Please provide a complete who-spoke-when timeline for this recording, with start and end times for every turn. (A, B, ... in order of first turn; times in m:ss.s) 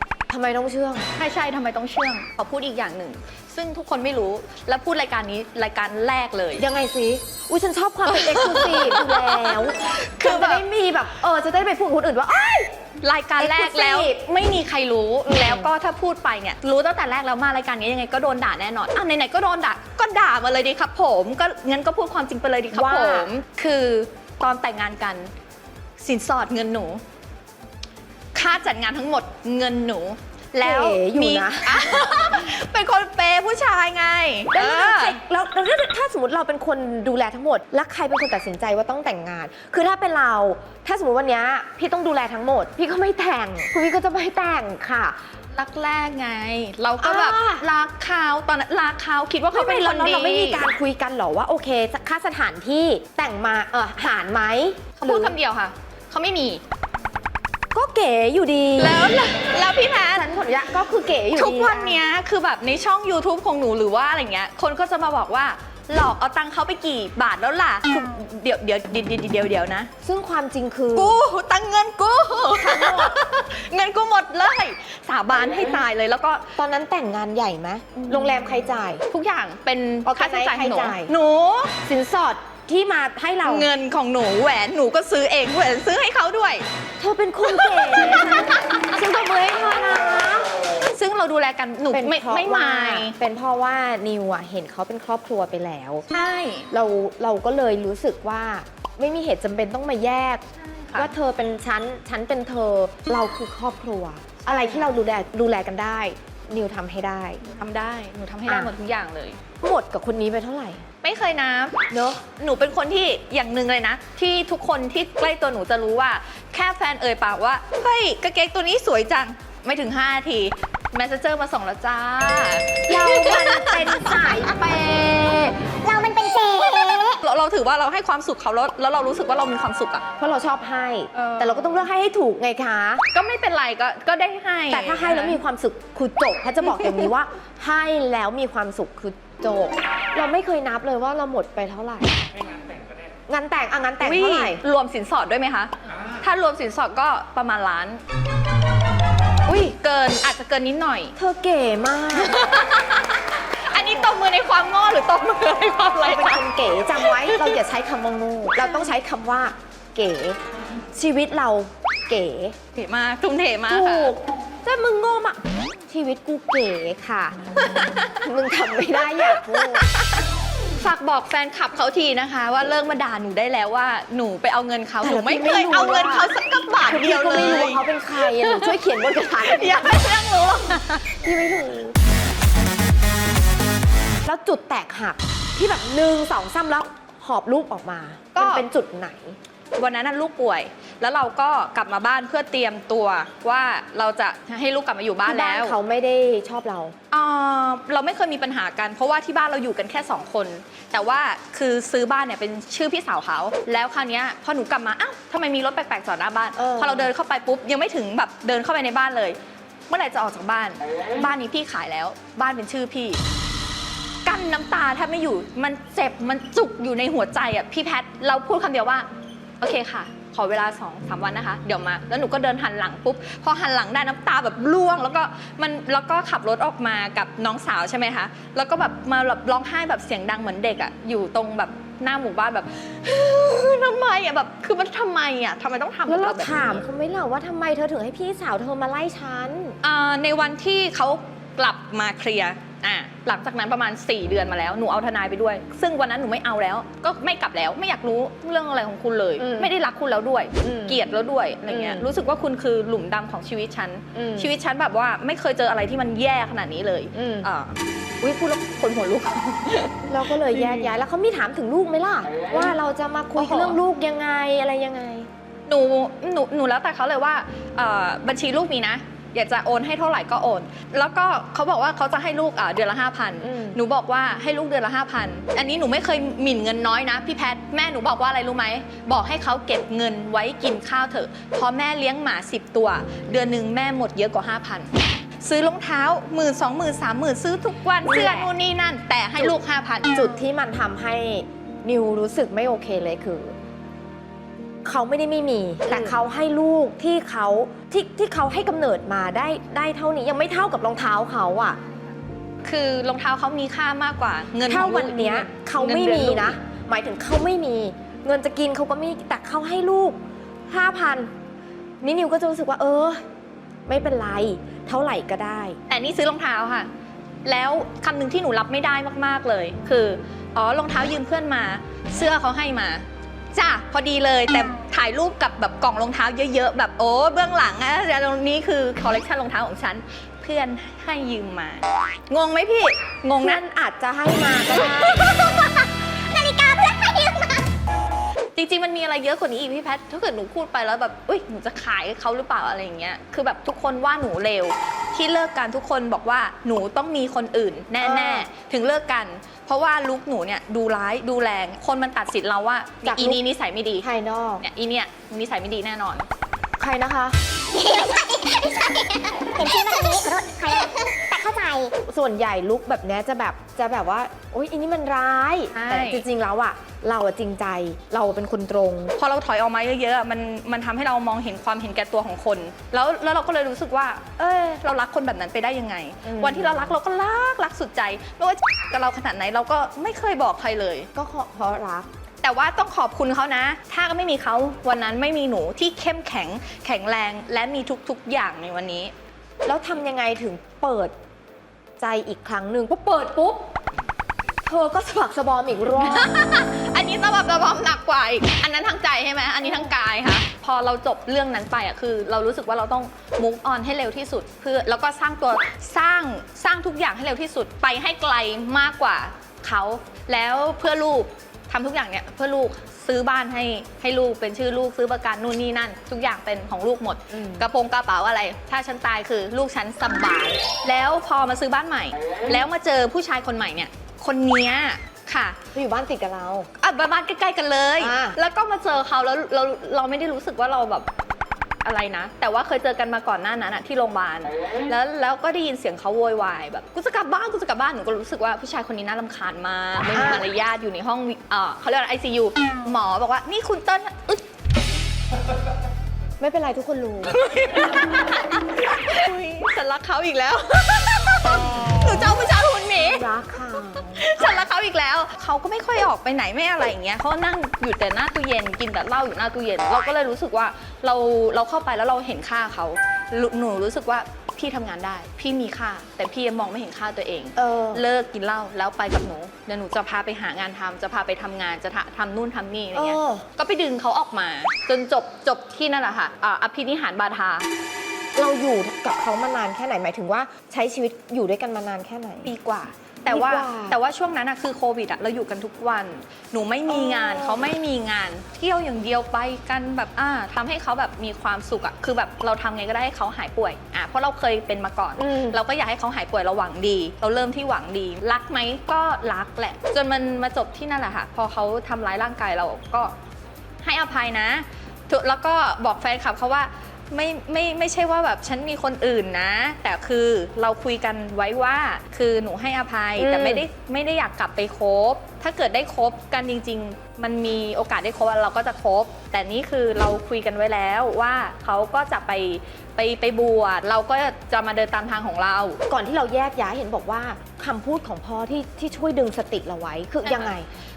0:00.3-0:01.1 A
0:01.2-0:06.6 B
0:06.6-0:12.7 A
0:08.1-0:10.6 B
0:13.0-0:25.3 B
0:13.4-0:14.2 A
0:15.2-0:15.7 A
0:22.7-0:23.3 A
0:26.0-0:27.0 B
0:28.3-0:35.2 B
0:30.6-0:32.1 A
0:34.5-0:45.2 A
0:45.5-0:50.6 B
0:47.0-0:47.6 A
0:49.5-0:55.3 A
0:55.0-0:56.6 B
0:57.7-0:59.1 A
0:58.8-1:00.2 B
1:00.1-1:02.0 A
1:01.3-1:09.9 B
1:10.0-1:11.2 A
1:10.9-1:16.6 B
1:12.6-1:13.1 A
1:16.6-1:19.0 A
1:18.0-1:18.3 B
1:19.1-1:21.7 B
1:20.0-1:21.1 A
1:21.8-1:23.7 A
1:23.4-1:26.6 B
1:27.0-1:30.5 A
1:27.5-1:28.5 B
1:30.9-1:33.2 B
1:31.9-1:36.0 A
1:36.1-1:36.7 B
1:36.7-1:47.5 A
1:40.6-1:41.1 B
1:44.4-1:44.9 B
1:47.5-1:49.4 B
1:48.5-1:48.7 A
1:49.6-1:50.8 A
1:51.0-2:04.2 B
1:51.9-1:52.2 A
2:02.9-2:05.6 A
2:05.7-2:07.2 C
2:07.2-2:10.0 B
2:10.2-2:13.0 A
2:11.1-2:11.8 B
2:13.1-2:15.4 B
2:14.7-2:22.2 A
2:16.6-2:17.0 B
2:23.3-2:24.6 A
2:24.0-2:28.0 B
2:29.5-2:31.1 B
2:31.2-2:32.4 A
2:32.2-2:36.4 B
2:36.0-2:40.4 A
2:37.0-2:37.6 B
2:38.6-2:38.9 B
2:40.9-2:42.6 A
2:42.7-2:44.1 B
2:43.7-2:47.4 A
2:47.6-2:48.2 B
2:48.2-2:49.9 A
2:49.1-2:50.3 B
2:50.8-2:58.7 B
2:55.0-2:56.3 A
2:56.8-2:59.8 A
2:59.4-3:01.1 B
3:01.2-3:02.0 A
3:04.2-3:09.4 A
3:08.3-3:08.6 B
3:09.8-3:15.7 B
3:15.3-3:16.9 A
3:17.1-3:29.4 B
3:26.6-3:27.1 A
3:29.9-3:33.2 B
3:34.2-3:39.1 B
3:39.6-3:56.8 B
3:56.1-3:59.8 A
3:59.8-4:20.9 B
4:09.4-4:09.7 A
4:10.6-4:11.0 A
4:11.7-4:12.1 A
4:14.1-4:14.5 A
4:17.1-4:17.5 A
4:20.1-4:25.3 A
4:23.4-4:23.8 B
4:25.7-4:50.1 B
4:33.4-4:33.8 A
4:48.0-4:48.5 A
4:50.1-4:53.6 A
4:54.8-5:01.8 A
4:55.9-4:56.2 B
5:02.6-5:06.6 B
5:04.6-5:11.3 A
5:12.0-5:13.2 A
5:13.9-5:15.8 A
5:15.9-5:16.9 B
5:17.4-5:33.6 B
5:33.4-5:35.4 A
5:34.8-5:37.7 C
5:38.6-5:54.1 B
5:48.0-5:48.5 A
5:53.0-5:53.4 A
5:54.0-5:54.6 A
5:54.6-5:56.3 B
5:56.8-5:57.4 A
5:57.7-6:01.9 C
6:02.0-6:09.1 A
6:05.7-6:06.2 B
6:09.2-6:21.1 B
6:16.2-6:17.0 A
6:21.1-6:22.1 A
6:22.4-6:29.1 B
6:29.6-6:31.1 A
6:32.0-6:33.1 A
6:32.9-6:33.6 B
6:34.6-6:36.3 A
6:36.0-7:05.6 B
6:39.6-6:39.9 A
6:57.3-6:57.7 A
7:05.7-7:06.7 A
7:06.8-7:11.1 B
7:08.0-7:08.4 A
7:11.8-7:24.4 B
7:20.1-7:20.4 A
7:26.4-7:27.4 A
7:27.3-7:33.2 B
7:33.1-7:34.6 A
7:33.9-7:57.7 B
7:47.6-7:48.0 A
7:52.9-7:53.4 A
7:58.3-8:02.5 A
8:02.4-8:23.1 B
8:03.3-8:04.0 A
8:06.9-8:07.6 A
8:15.2-8:15.6 A
8:23.8-8:45.8 B
8:33.2-8:33.6 A
8:45.9-8:50.7 A
8:50.2-8:50.5 B